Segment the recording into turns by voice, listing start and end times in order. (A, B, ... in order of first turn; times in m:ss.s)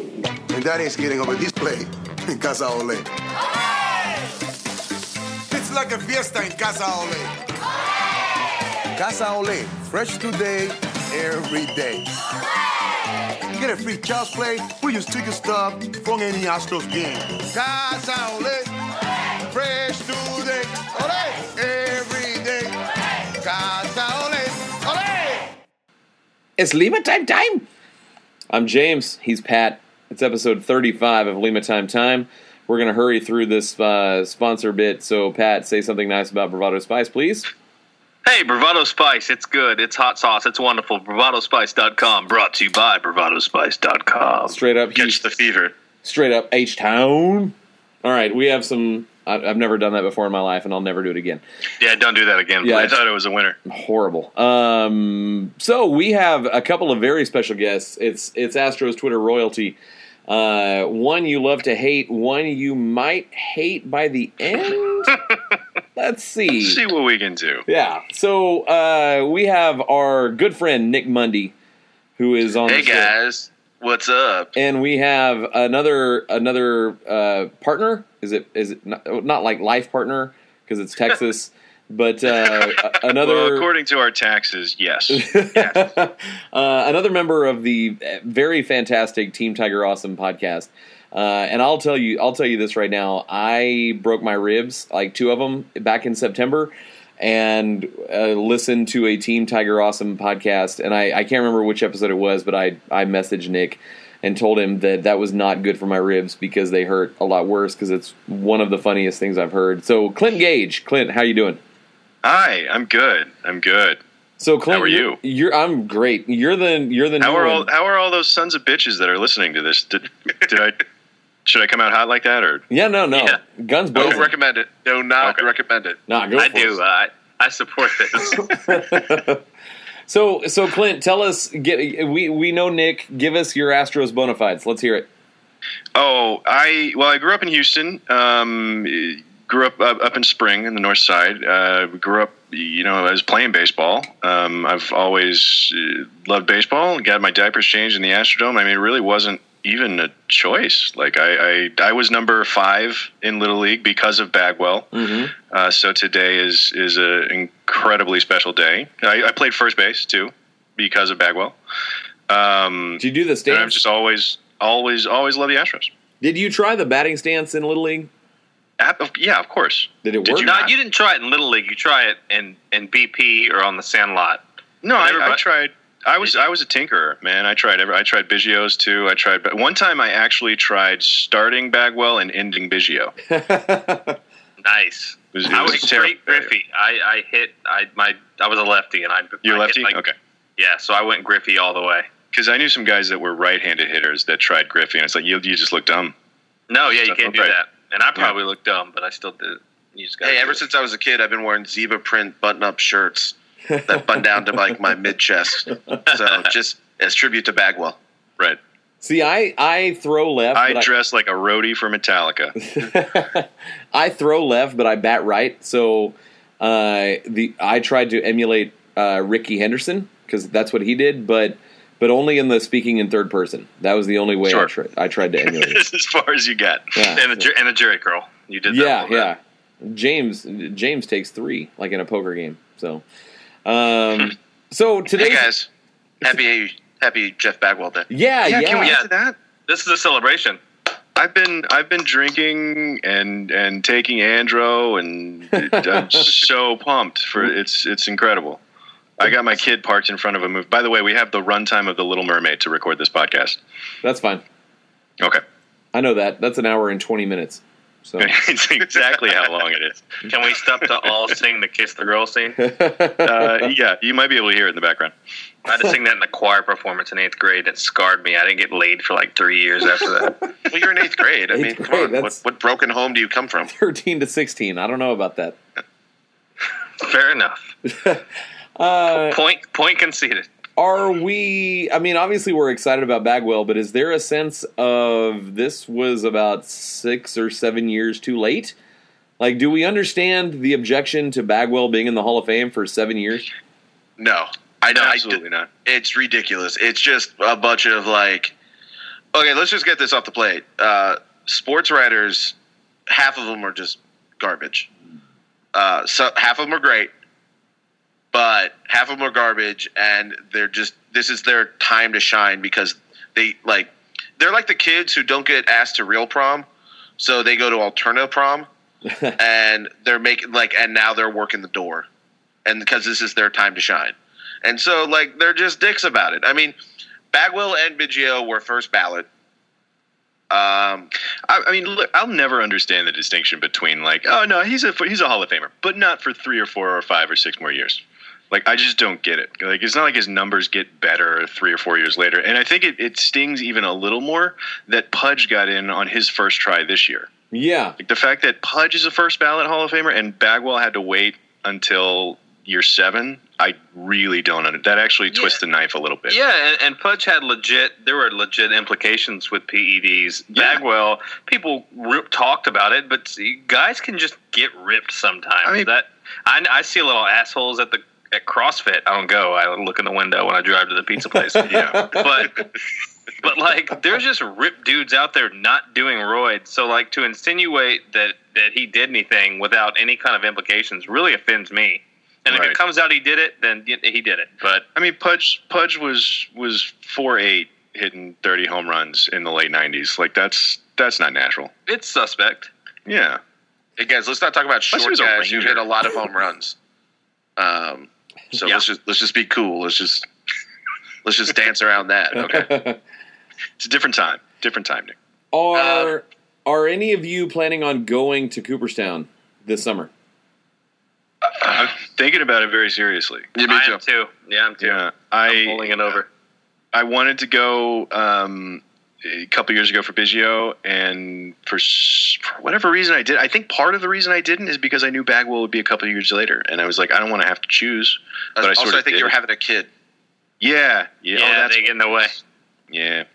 0:00.5-0:03.1 A
0:05.5-0:07.3 A
0:09.0-0:12.1 A
0:13.5-0:18.7 A
0:19.5-0:22.7 A
0:23.4-0:25.5 A
0:26.6-0:27.7 B
0:28.5-0:37.5 B
0:38.2-0:44.6 C
0:44.5-0:45.2 B
0:45.0-0:45.8 D
0:46.0-0:51.4 B
0:51.8-0:53.0 C
0:52.6-0:53.0 B
0:52.6-0:53.6 E
0:53.7-1:05.2 B
1:06.0-1:06.8 B
1:06.5-1:07.6 E
1:07.7-1:11.5 B
1:12.2-1:13.1 B
1:12.7-1:14.5 D
1:14.6-1:23.7 B
1:22.9-1:25.2 E
1:25.1-1:51.6 B
1:52.2-1:54.0 E
1:54.4-1:57.7 B
1:54.7-1:55.2 E
1:57.2-2:00.8 E
2:01.4-2:02.6 E
2:02.7-2:04.3 B
2:03.1-2:03.4 C
2:04.0-2:06.0 D
2:05.2-2:05.5 E
2:06.1-2:06.8 B
2:06.4-2:08.6 C
2:08.2-2:09.4 B
2:10.1-2:15.1 B
2:16.0-2:34.9 E
2:34.9-2:35.3 B
2:35.5-2:41.6 E
2:42.3-2:45.9 E
2:43.0-2:43.8 B
2:46.2-2:48.1 B
2:48.8-2:50.7 E
2:50.0-2:50.6 B
2:50.3-2:54.4 C
2:54.8-3:03.1 E
2:55.0-2:55.4 C
2:56.2-2:56.5 C
3:03.3-3:04.2 B
3:04.6-3:10.0 C
3:05.3-3:06.5 E
3:09.4-3:10.1 E
3:10.6-3:12.1 C
3:12.3-3:16.1 E
3:16.7-3:20.6 C
3:17.0-3:17.5 E
3:20.2-3:28.0 D
3:23.7-3:24.7 B
3:29.0-3:30.9 B
3:30.6-3:32.6 E
3:32.6-3:45.8 B
3:45.4-3:47.1 E
3:47.0-3:47.5 B
3:47.2-3:49.3 C
3:48.7-3:53.0 B
3:53.6-3:55.5 B
3:55.2-3:55.7 D
3:56.2-3:58.1 D
3:58.1-3:58.9 B
3:58.4-3:59.4 E
3:58.8-3:59.1 C
3:59.7-4:00.6 C
4:01.2-4:08.6 E
4:05.5-4:06.3 B
4:09.2-4:13.6 E
4:14.0-4:14.4 B
4:15.9-4:18.3 B
4:18.2-4:20.2 E
4:20.3-4:22.6 C
4:22.6-4:23.7 B
4:23.1-4:25.1 E
4:25.6-4:30.4 C
4:30.7-4:33.7 D
4:31.5-4:32.4 B
4:33.7-4:35.6 B
4:37.0-4:37.7 C
4:37.8-4:38.2 B
4:38.8-4:39.4 B
4:39.2-4:40.5 C
4:40.8-4:48.8 B
4:49.4-4:53.5 B
4:54.2-4:58.5 D
4:54.9-4:55.7 E
4:59.3-5:02.6 D
5:03.1-5:04.9 D
5:05.7-5:07.1 D
5:08.3-5:16.7 D
5:17.2-5:18.7 D
5:19.1-5:19.4 B
5:19.4-5:22.1 D
5:22.6-5:26.8 D
5:27.3-5:29.3 D
5:30.5-5:31.1 D
5:31.5-5:47.3 E
5:47.5-5:48.0 B
5:48.0-5:56.4 E
5:55.3-5:55.6 C
5:56.3-6:12.6 C
6:00.5-6:00.8 E
6:11.5-6:12.4 B
6:11.6-6:12.4 E
6:13.4-6:24.9 C
6:22.5-6:22.8 E
6:25.0-6:31.7 E
6:31.9-6:32.7 C
6:33.1-6:33.4 E
6:34.0-6:36.8 D
6:34.9-6:36.2 E
6:37.6-6:40.2 D
6:41.2-6:42.7 D
6:42.4-6:43.0 B
6:43.8-6:45.1 E
6:45.5-6:50.1 B
6:45.7-6:46.1 D
6:51.6-6:53.5 E
6:53.6-6:54.0 D
6:53.6-6:56.3 C
6:54.8-6:56.1 E
6:56.9-7:09.4 E
7:08.6-7:09.9 D
7:10.6-7:13.2 E
7:11.3-7:12.3 C